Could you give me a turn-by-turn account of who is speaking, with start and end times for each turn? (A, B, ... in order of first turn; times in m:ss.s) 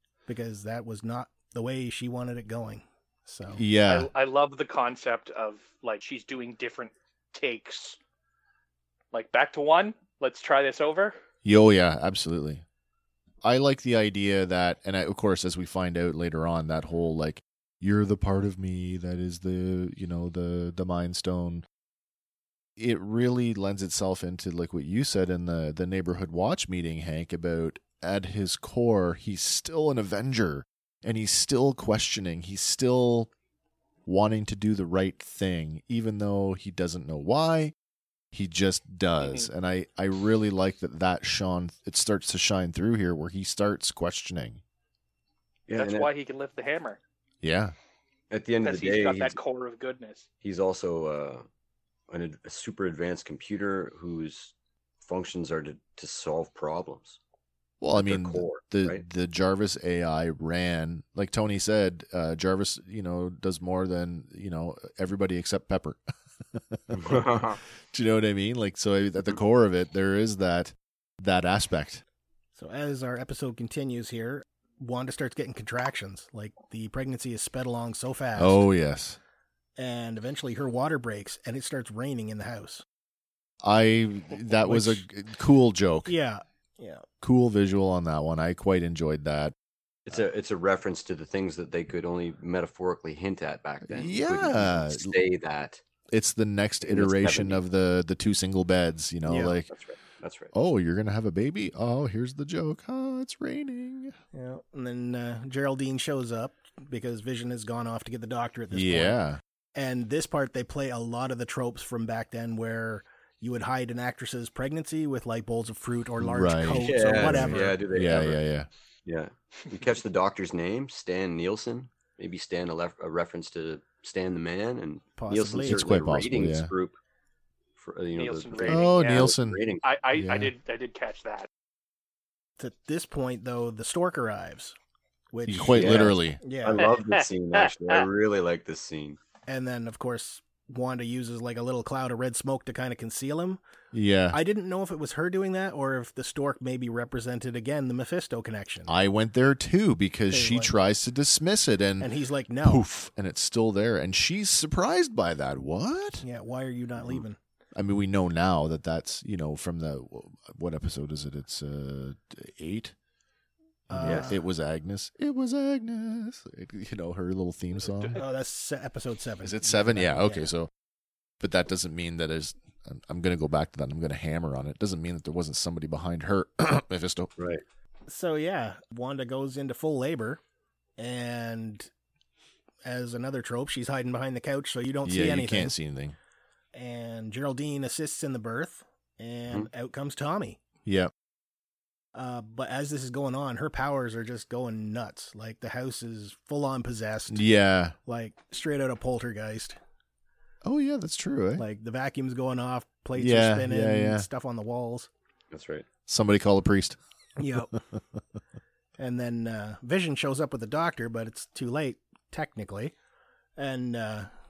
0:00.3-0:03.6 A
0:03.5-0:04.1 B
0:03.9-0:08.0 C
0:09.1-0:11.2 C
0:11.4-0:12.6 B
0:13.4-0:21.6 B
0:22.8-0:33.3 B
0:34.1-0:37.7 B
0:38.3-0:44.6 B
0:39.2-0:39.5 C
0:45.7-0:46.1 D
0:45.8-0:47.0 C
0:47.4-0:47.7 B
0:48.3-0:49.4 D
0:48.6-0:50.3 C
0:50.4-0:51.4 D
0:52.1-0:54.5 D
0:55.0-0:57.2 D
0:57.8-1:06.0 B
0:57.9-0:59.0 D
1:06.5-1:07.4 B
1:06.9-1:07.6 D
1:07.9-1:12.0 B
1:12.6-1:18.6 A
1:18.4-1:19.2 B
1:19.8-1:22.8 A
1:23.6-1:26.2 B
1:24.6-1:25.0 A
1:26.1-1:27.0 A
1:27.2-1:29.5 B
1:30.1-1:35.8 D
1:33.9-1:35.2 B
1:36.1-1:39.7 B
1:36.9-1:37.6 D
1:39.3-1:39.6 A
1:39.7-1:40.5 D
1:40.5-1:44.2 B
1:44.3-1:49.2 A
1:48.7-1:49.4 B
1:49.8-1:57.8 A
1:56.2-1:58.7 B
1:56.8-1:58.4 D
1:59.1-2:07.0 D
2:05.2-2:05.8 A
2:05.6-2:06.7 B
2:07.8-2:09.8 D
2:08.2-2:09.3 C
2:08.6-2:09.6 B
2:09.8-2:11.5 C
2:10.1-2:10.5 B
2:12.6-2:14.8 A
2:15.3-2:16.8 A
2:15.4-2:16.4 B
2:15.7-2:19.2 D
2:16.8-2:18.0 C
2:19.5-2:23.6 A
2:23.9-2:24.4 B
2:24.3-2:28.9 A
2:28.9-2:32.1 B
2:30.3-2:30.7 A
2:32.0-2:32.8 A
2:32.6-2:36.2 B
2:36.2-2:37.4 A
2:37.8-2:42.9 B
2:43.9-2:48.2 B
2:43.9-2:44.4 A
2:44.0-2:44.3 D
2:48.2-2:50.5 A
2:49.4-2:50.7 B
2:51.4-2:57.3 B
2:57.4-2:57.6 D
2:58.1-3:00.4 A
3:01.0-3:01.9 A
3:02.8-3:05.8 A
3:05.0-3:06.2 B
3:06.7-3:10.6 A
3:10.9-3:11.1 B
3:12.2-3:17.4 A
3:17.3-3:18.0 B
3:18.1-3:19.8 A
3:20.6-3:21.6 B
3:21.6-3:25.1 A
3:23.1-3:24.3 B
3:25.5-3:25.8 D
3:26.1-3:27.0 B
3:27.4-3:27.8 A
3:29.0-3:33.0 A
3:33.6-3:34.3 A